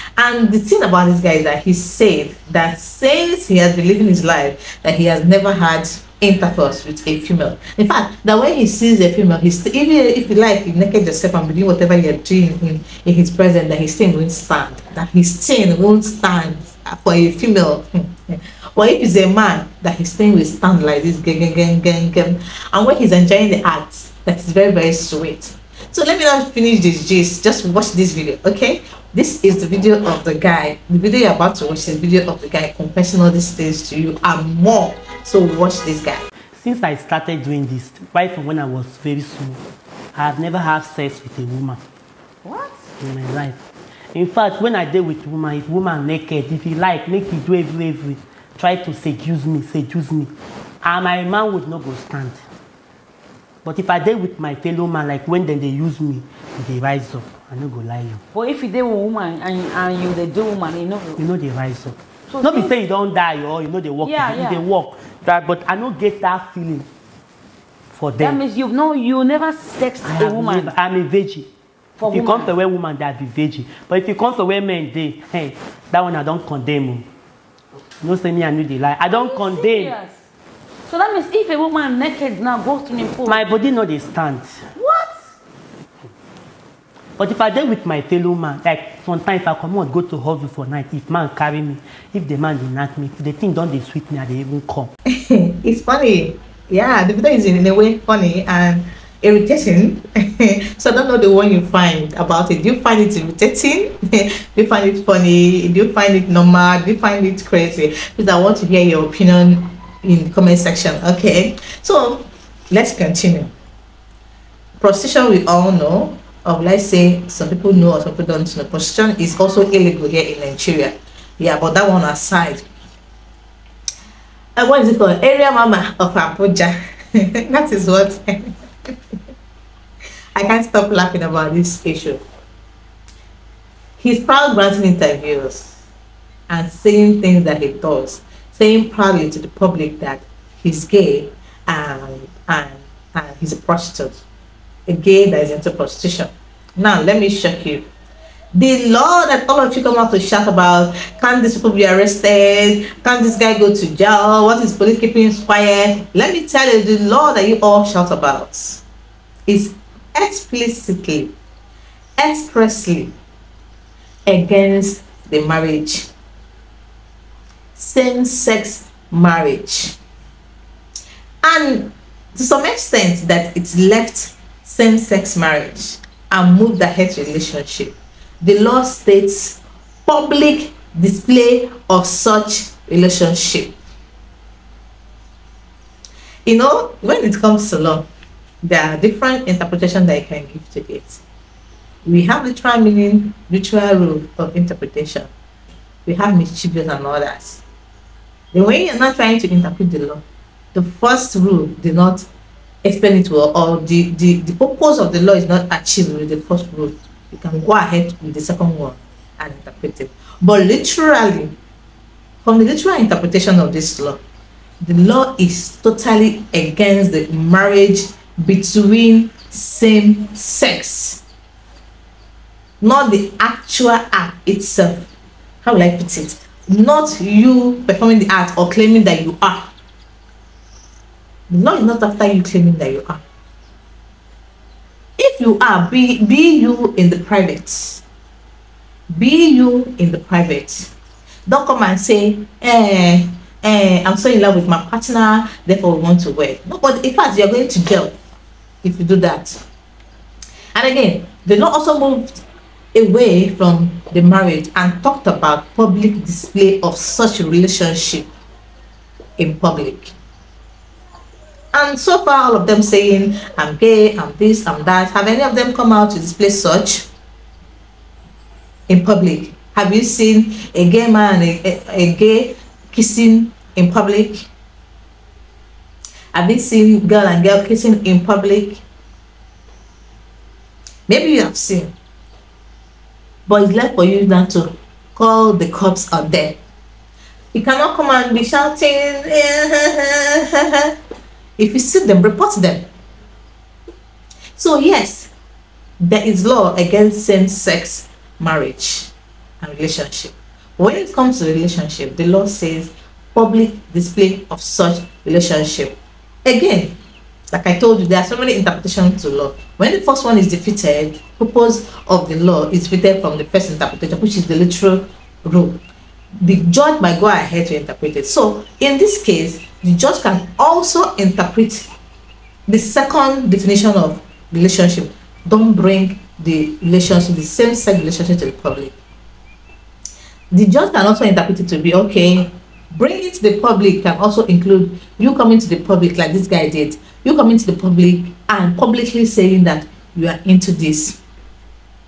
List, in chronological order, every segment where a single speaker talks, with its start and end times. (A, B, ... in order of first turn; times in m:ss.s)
0:00.2-0:36.2 A
0:36.5-0:39.6 B
0:40.1-0:41.8 B
0:42.4-0:42.8 C
0:43.0-0:43.6 B
0:44.1-0:50.3 B
0:50.8-0:52.4 B
0:53.6-0:58.2 B
0:58.3-1:01.2 C
1:01.2-1:06.9 B
1:02.3-1:02.7 C
1:04.0-1:04.6 C
1:07.9-1:08.4 B
1:08.2-1:10.7 C
1:10.0-1:11.5 B
1:12.0-1:12.5 C
1:12.1-1:17.1 B
1:18.0-1:19.9 B
1:19.0-1:20.2 C
1:20.9-1:23.4 C
1:23.2-1:24.6 B
1:24.7-1:25.2 C
1:27.2-1:34.9 B
1:35.2-1:53.5 A
1:54.8-2:02.7 A
2:04.6-2:08.5 A
2:10.4-2:12.2 A
2:14.0-2:15.7 A
2:16.5-2:24.2 A
2:24.9-2:27.8 A
2:28.5-2:38.8 A
2:39.5-2:41.3 A
2:42.2-2:43.1 A
2:44.3-2:46.1 A
2:47.8-2:50.0 A
2:51.4-3:03.8 A
3:06.4-3:08.0 A
3:08.6-3:11.2 A
3:12.0-3:15.3 A
3:16.0-3:17.6 A
3:18.5-3:20.2 A
3:20.7-3:22.2 A
3:22.8-3:31.5 A
3:32.4-3:34.2 A
3:34.8-3:41.2 A
3:42.8-3:45.1 A
3:45.6-3:49.7 A
3:51.5-3:53.2 A
3:55.2-3:58.0 A
3:59.1-4:00.9 A
4:01.4-4:08.1 A
4:08.8-4:09.6 A
4:10.7-4:12.4 A
4:12.9-4:18.3 A
4:19.4-4:20.1 A
4:21.7-4:27.1 A
4:28.9-4:34.5 A
4:36.3-4:38.8 A
4:41.1-4:41.9 A
4:43.5-4:46.6 A
4:47.5-4:50.9 A
4:51.6-4:52.9 A
4:54.6-4:55.3 A
4:56.0-5:07.0 A
5:07.5-5:15.8 A
5:16.4-5:21.9 A
5:22.7-5:28.9 A
5:30.5-5:41.2 A